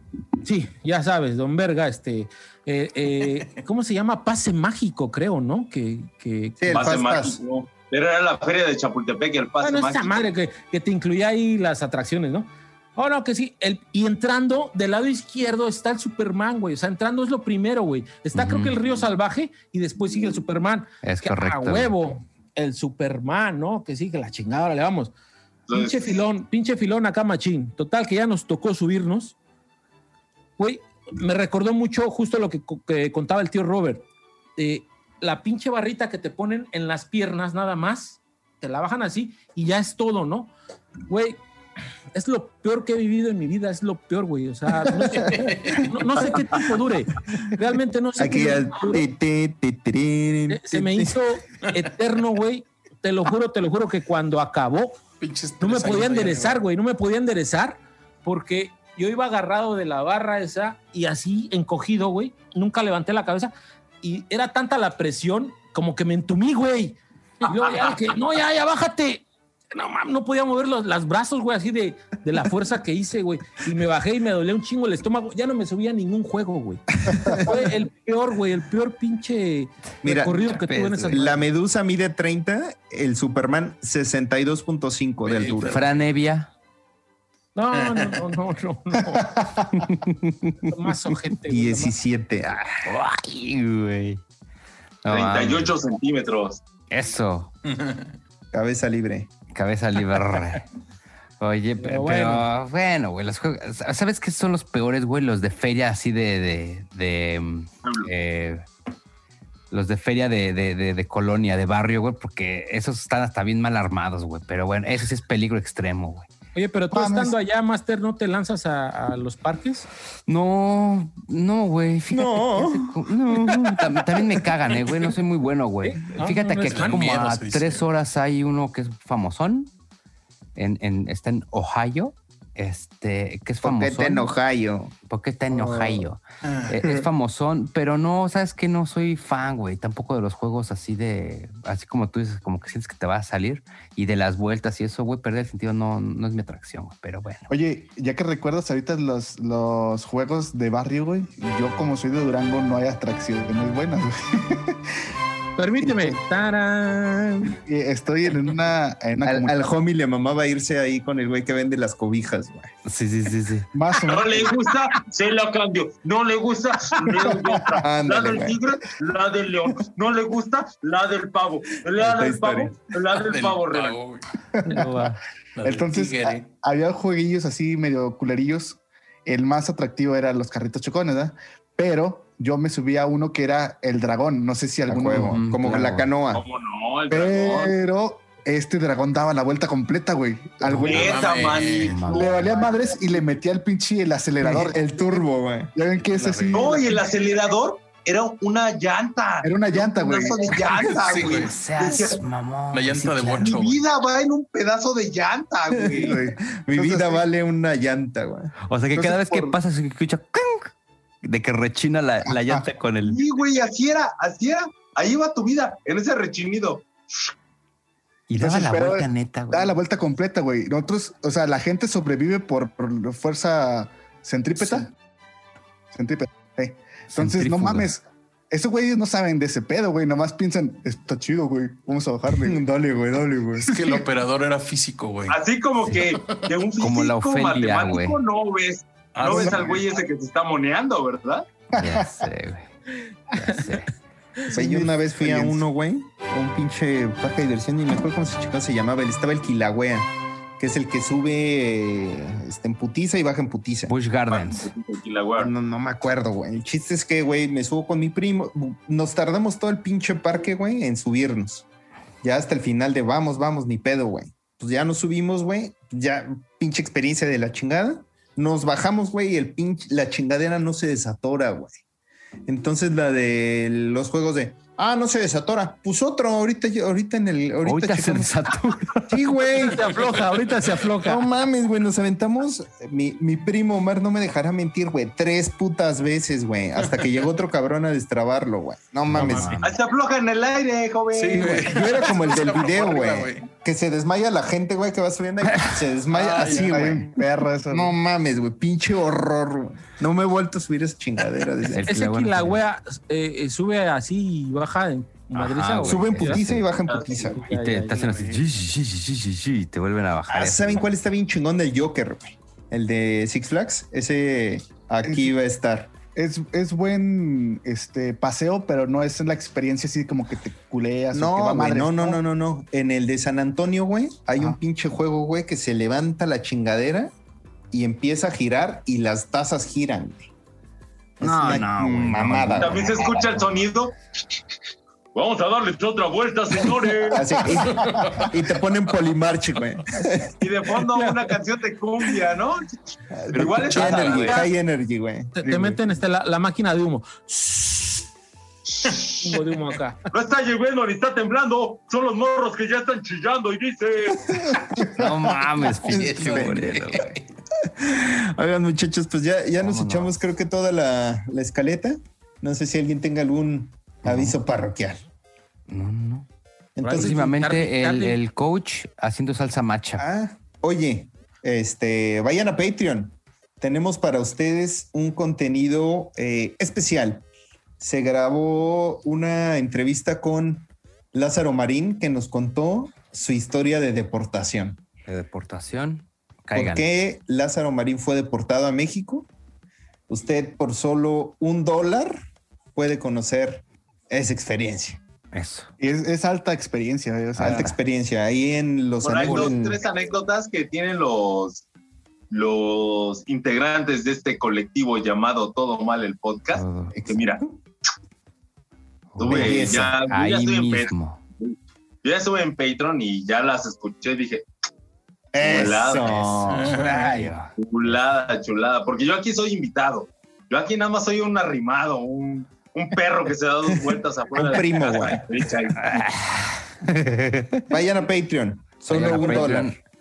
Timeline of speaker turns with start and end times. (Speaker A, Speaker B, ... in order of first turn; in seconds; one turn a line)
Speaker A: 0.4-6.7
Speaker B: 6.6-7.4
Speaker C: 6.7-10.3
Speaker A: 9.6-25.1
Speaker D: 18.3-18.8
Speaker D: 21.0-22.1
Speaker C: 25.7-26.2
Speaker A: 25.7-29.4
Speaker A: 30.6-34.0
Speaker A: 34.6-40.5
Speaker A: 41.0-41.4
Speaker A: 42.1-49.0
Speaker E: 45.0-46.0
Speaker B: 48.2-51.2
Speaker A: 50.5-55.0
Speaker E: 55.2-56.6
Speaker A: 55.6-81.4
Speaker B: 77.2-77.5
Speaker B: 80.0-85.8
Speaker D: 80.6-81.2
Speaker E: 85.2-86.0
Speaker D: 85.7-86.5
Speaker A: 87.5-89.3
Speaker E: 87.7-88.2
Speaker F: 89.1-89.6
Speaker D: 89.6-90.7
Speaker A: 90.6-92.0
Speaker B: 91.5-92.8
Speaker D: 92.8-94.2
Speaker D: 95.0-95.7
Speaker C: 95.0-96.6
Speaker D: 96.9-97.5
Speaker E: 97.6-98.1
Speaker B: 98.5-99.3
Speaker D: 99.5-100.7
Speaker D: 101.4-108.6
Speaker A: 101.8-102.5
Speaker C: 107.8-108.1
Speaker D: 109.7-116.3
Speaker A: 116.5-119.9
Speaker F: 116.9-117.4
Speaker D: 120.3-129.7
Speaker B: 122.1-124.4
Speaker A: 125.9-127.1
Speaker E: 126.6-127.9
Speaker D: 130.6-134.3
Speaker B: 133.6-134.9
Speaker D: 135.1-147.5
Speaker B: 135.5-136.1
Speaker E: 136.4-137.0
Speaker F: 147.5-155.0
Speaker A: 155.6-157.3
Speaker F: 155.9-156.1
Speaker F: 157.6-159.6
Speaker B: 159.2-162.7
Speaker D: 162.9-163.7
Speaker F: 163.7-164.6
Speaker C: 164.0-174.0
Speaker F: 167.2-167.7
Speaker B: 167.8-168.6
Speaker B: 172.0-172.7
Speaker E: 173.3-174.3
Speaker F: 174.6-185.4
Speaker A: 174.7-175.2
Speaker E: 175.6-176.5
Speaker B: 184.9-186.4
Speaker D: 185.2-186.1
Speaker C: 186.3-187.8
Speaker F: 187.1-191.4
Speaker D: 190.7-191.1
Speaker C: 190.8-192.7
Speaker E: 190.8-192.1
Speaker D: 191.8-192.6
Speaker F: 192.1-195.2
Speaker B: 194.4-195.7
Speaker F: 195.7-196.8
Speaker E: 196.0-197.1
Speaker C: 196.5-202.2
Speaker F: 199.4-201.2
Speaker D: 200.8-203.7
Speaker E: 201.0-201.6
Speaker E: 202.7-203.8
Speaker C: 203.4-206.2
Speaker B: 205.7-208.5
Speaker F: 205.8-207.2
Speaker D: 208.7-210.7
Speaker F: 208.9-209.6
Speaker D: 211.2-213.2
Speaker F: 212.3-212.7
Speaker C: 213.0-217.3
Speaker D: 218.3-219.8
Speaker F: 218.4-224.9
Speaker F: 225.9-232.6
Speaker D: 227.1-227.9
Speaker B: 232.4-233.8
Speaker E: 233.7-235.4
Speaker C: 235.3-241.4
Speaker E: 235.9-236.4
Speaker D: 236.8-238.2
Speaker E: 239.1-239.8
Speaker F: 239.3-239.6
Speaker F: 241.8-242.3
Speaker D: 241.8-242.7
Speaker A: 243.3-243.8
Speaker D: 243.3-243.9
Speaker F: 244.5-245.6
Speaker B: 244.5-253.9
Speaker D: 253.9-254.7
Speaker C: 254.3-255.5
Speaker B: 255.4-261.7
Speaker B: 262.2-271.8
Speaker B: 272.4-278.5
Speaker D: 277.6-279.2
Speaker B: 279.1-279.9
Speaker A: 279.6-281.2
Speaker B: 281.0-289.6
Speaker E: 289.1-289.7
Speaker D: 289.1-289.6
Speaker C: 289.6-291.8
Speaker E: 291.1-293.5
Speaker B: 291.3-301.9
Speaker E: 296.1-297.1
Speaker F: 296.4-297.9
Speaker D: 301.7-302.6
Speaker A: 301.9-306.5
Speaker D: 305.3-306.6
Speaker B: 305.8-307.4
Speaker C: 306.9-307.3
Speaker A: 307.1-308.3
Speaker D: 307.4-310.9
Speaker E: 308.0-308.4
Speaker B: 310.3-315.9
Speaker F: 315.0-315.3
Speaker F: 316.1-322.2
Speaker B: 321.1-327.1
Speaker B: 327.7-330.3
Speaker B: 331.2-333.1
Speaker D: 331.2-333.6
Speaker C: 332.6-333.9
Speaker C: 335.1-337.4
Speaker B: 337.1-340.3
Speaker E: 337.7-338.3
Speaker C: 340.4-342.7
Speaker B: 343.2-345.4
Speaker C: 343.3-344.5
Speaker E: 343.4-344.4
Speaker A: 345.4-348.1
Speaker A: 349.2-350.0
Speaker C: 350.1-354.5
Speaker B: 354.5-356.8
Speaker D: 354.8-357.1
Speaker E: 355.9-357.2
Speaker B: 357.6-365.0
Speaker D: 359.6-360.1
Speaker D: 364.1-364.4
Speaker D: 365.7-366.3
Speaker B: 366.8-367.4
Speaker A: 366.8-368.2
Speaker D: 366.9-370.0
Speaker B: 370.0-377.2
Speaker B: 377.8-384.8
Speaker D: 385.1-386.9
Speaker B: 386.5-389.3
Speaker B: 390.1-392.2
Speaker B: 392.7-395.0
Speaker D: 395.3-395.7
Speaker F: 395.8-397.7
Speaker B: 397.4-399.8
Speaker D: 397.4-397.7
Speaker C: 399.0-401.6
Speaker D: 399.2-399.5
Speaker C: 402.3-407.4
Speaker D: 406.5-407.0
Speaker B: 406.9-407.5
Speaker D: 409.1-411.2
Speaker C: 409.2-410.9
Speaker B: 409.2-409.9
Speaker C: 412.0-414.4
Speaker B: 415.3-416.7
Speaker C: 415.4-416.2
Speaker D: 415.5-418.0
Speaker E: 416.5-417.3
Speaker C: 417.6-425.9
Speaker B: 423.7-425.3
Speaker D: 425.8-427.6
Speaker B: 427.7-429.8
Speaker D: 428.9-429.8
Speaker A: 429.1-429.6